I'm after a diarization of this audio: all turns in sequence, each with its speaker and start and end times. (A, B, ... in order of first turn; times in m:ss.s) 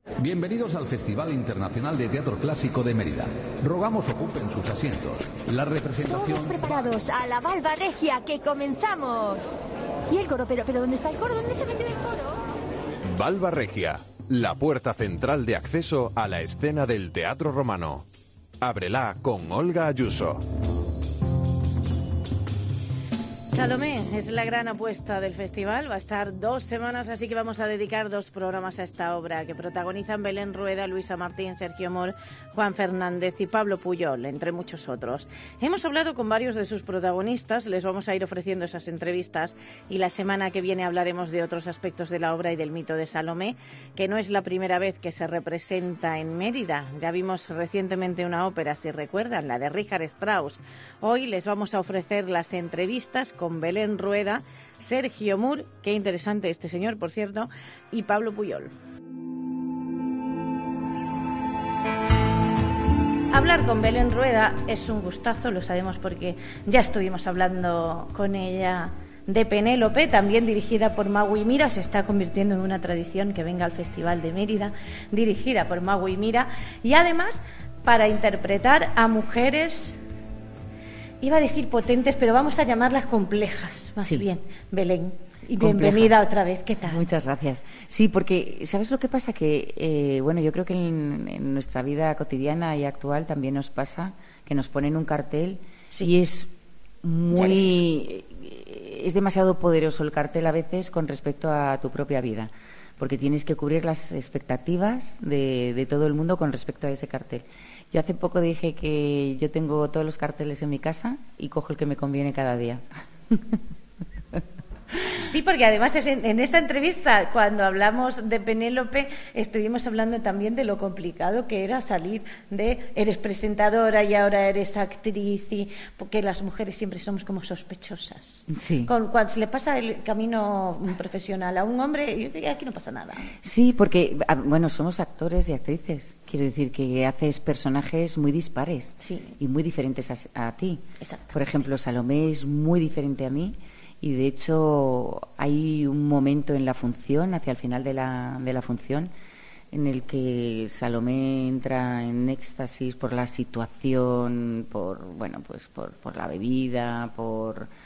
0:00.2-0:06.7 A
0:06.0-0:09.6 B
0:10.1-0:12.4 B
0:13.0-0:18.0 C
0:18.6-0:20.4 C
0:23.5-0:58.7 D
1:03.3-1:20.0 D
1:21.2-1:27.0 D
1:25.6-1:26.3 E
1:26.8-1:53.6 E
1:37.3-1:37.8 D
1:55.1-2:13.3 D
2:08.5-2:08.9 E
2:13.3-2:29.1 E
2:19.0-2:19.3 D
2:21.0-2:21.4 D
2:29.7-2:37.7 E